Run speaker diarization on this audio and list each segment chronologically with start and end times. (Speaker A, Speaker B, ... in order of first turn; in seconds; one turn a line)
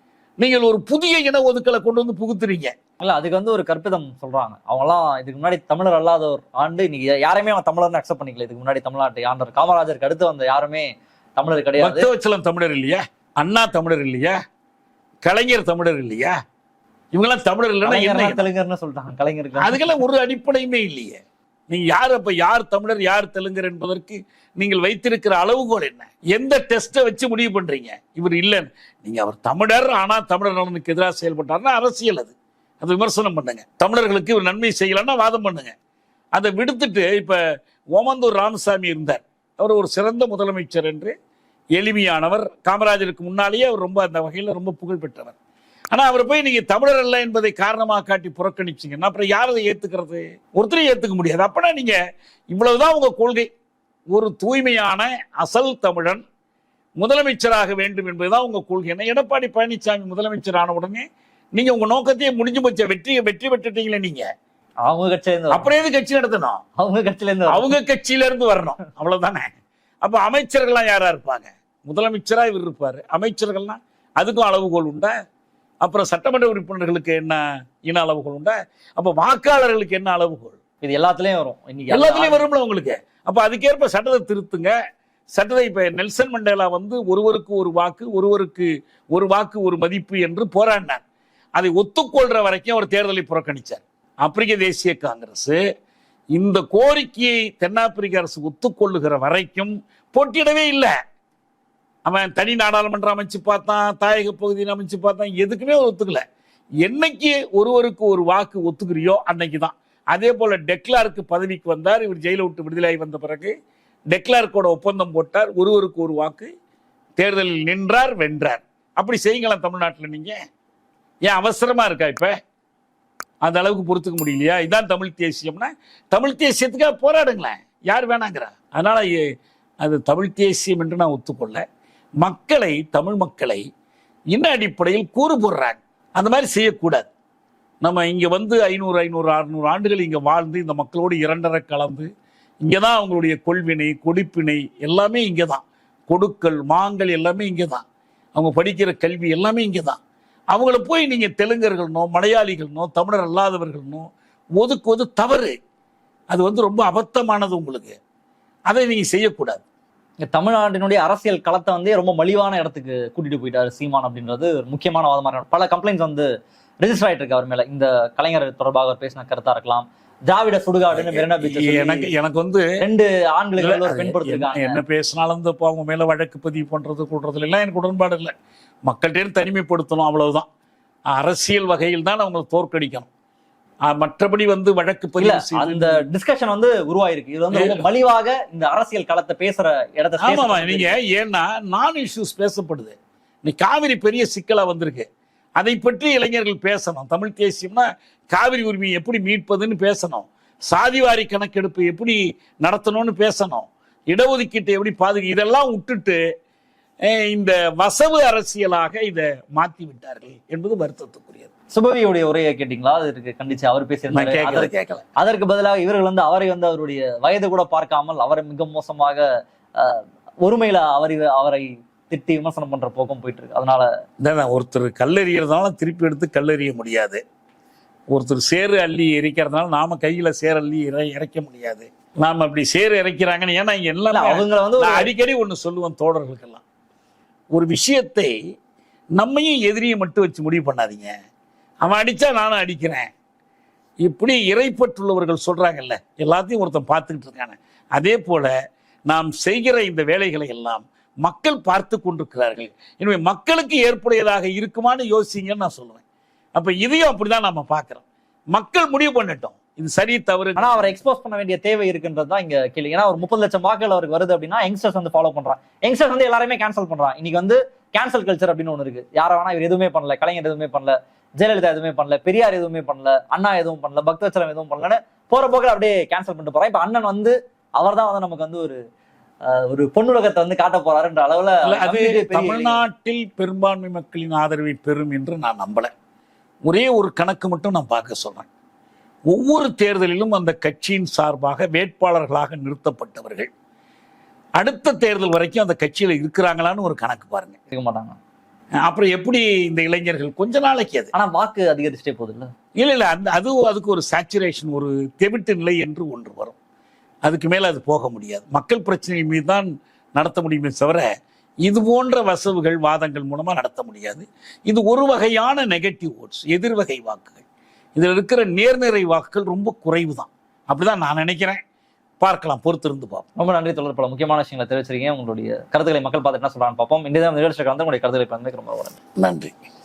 Speaker A: 0.4-2.7
Speaker B: 3.0-12.1
Speaker A: 11.8-14.3
Speaker A: 15.2-16.4
Speaker A: 17.1-18.5
Speaker B: 17.8-20.0
Speaker A: 19.6-35.7
Speaker A: 36.3-37.4
Speaker A: 37.9-41.1
Speaker A: 41.8-45.3
Speaker A: 45.9-52.0
Speaker A: 52.5-53.5
Speaker A: 54.1-56.2
Speaker A: 57.0-64.3
Speaker B: 64.8-65.7
Speaker A: 65.5-66.6
Speaker B: 66.8-67.7
Speaker A: 67.5-69.5
Speaker A: 70.0-75.1
Speaker A: 75.8-80.6
Speaker B: 80.8-82.4
Speaker A: 81.9-84.7
Speaker A: 85.3-91.0
Speaker A: 91.5-95.6
Speaker A: 96.3-100.9
Speaker A: 102.0-106.2
Speaker A: 106.8-113.5
Speaker A: 114.1-116.5
Speaker A: 117.2-120.4
Speaker A: 121.2-122.3
Speaker A: 123.4-129.2
Speaker A: 129.8-131.6
Speaker A: 132.2-133.6
Speaker A: 134.3-137.1
Speaker A: 137.8-142.1
Speaker A: 142.6-150.0
Speaker A: 150.5-155.5
Speaker A: 156.3-158.0
Speaker A: 158.7-159.6
Speaker B: 160.3-166.3
Speaker B: 166.8-172.1
Speaker A: 170.9-172.7
Speaker B: 172.8-174.8
Speaker A: 173.6-178.3
Speaker A: 178.9-180.4
Speaker A: 181.1-183.1
Speaker A: 183.9-186.0
Speaker B: 185.2-191.0
Speaker A: 187.5-187.9
Speaker A: 190.2-206.2
Speaker A: 207.1-211.5
Speaker B: 211.7-219.2
Speaker A: 214.1-215.0
Speaker B: 219.8-223.9
Speaker A: 224.2-227.2
Speaker A: 228.1-236.6
Speaker B: 234.1-235.1
Speaker A: 237.5-238.3
Speaker A: 239.2-241.1
Speaker A: 241.8-243.1
Speaker A: 244.0-248.5
Speaker A: 249.1-256.0
Speaker A: 256.5-260.9
Speaker B: 260.6-278.8
Speaker B: 279.5-282.8
Speaker A: 281.6-285.9
Speaker A: 286.6-288.5
Speaker A: 289.3-293.5
Speaker A: 294.6-297.6
Speaker B: 297.7-298.2
Speaker A: 298.9-301.1
Speaker B: 301.1-302.5
Speaker A: 302.8-306.5
Speaker A: 307.2-311.1
Speaker A: 311.6-317.4
Speaker A: 317.9-321.6
Speaker A: 322.2-323.2
Speaker B: 323.4-329.0
Speaker A: 329.2-329.5